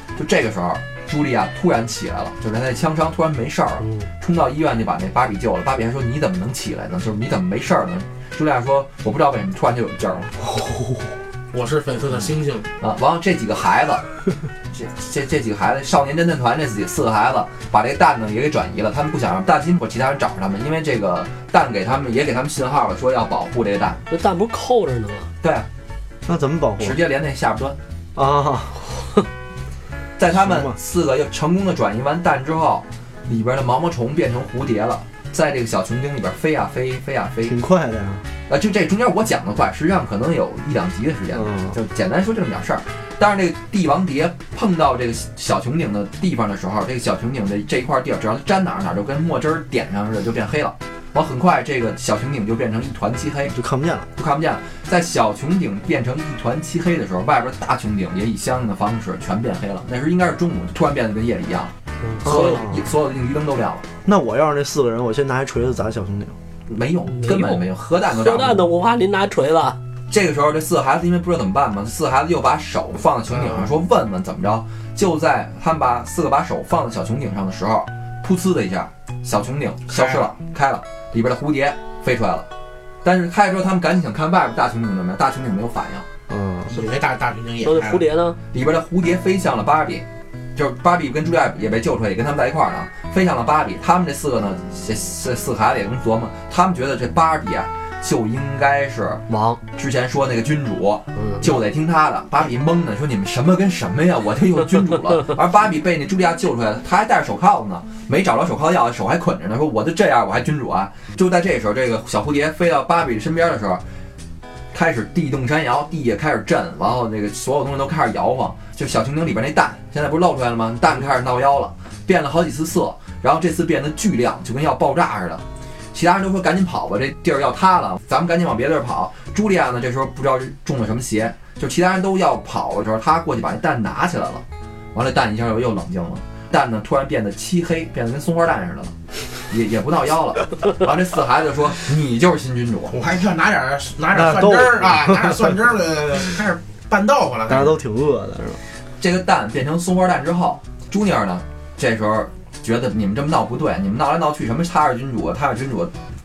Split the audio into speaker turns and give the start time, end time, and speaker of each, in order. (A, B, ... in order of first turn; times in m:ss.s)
0:00.2-0:10.3 A
0:10.5-0:11.1 B
0:11.5-0:12.7 C
0:12.8-0:14.0 A
0:14.7-0:24.0 A
0:24.1-0:25.3 D
0:25.4-0:25.7 A
0:26.3-0:27.0 B
0:26.8-0:27.8 A
0:28.2-0:28.9 B
0:30.2-0:37.6 A
0:30.4-0:30.8 B
0:37.5-0:38.2 B
0:38.5-0:53.6 A
0:41.3-0:41.8 B
0:53.5-0:54.1 B
0:54.2-1:03.9 A
1:02.2-1:02.9 B
1:04.0-1:06.4 B
1:06.7-1:08.7 A
1:07.2-1:09.8 D
1:10.1-1:22.5 A
1:13.3-1:13.7 C
1:19.9-1:20.3 C
1:23.0-1:26.1 A
1:26.3-1:26.8 B
1:26.7-1:28.1 C
1:27.6-1:28.4 D
1:28.5-1:39.2 A
1:39.3-1:39.6 D
1:39.8-1:53.8 A
1:41.2-1:41.5 D
1:54.7-2:18.9 A
2:19.5-2:23.0 A
2:22.9-2:27.8 C
2:24.1-2:25.5 B
2:27.5-2:28.6 B
2:29.0-2:35.9 A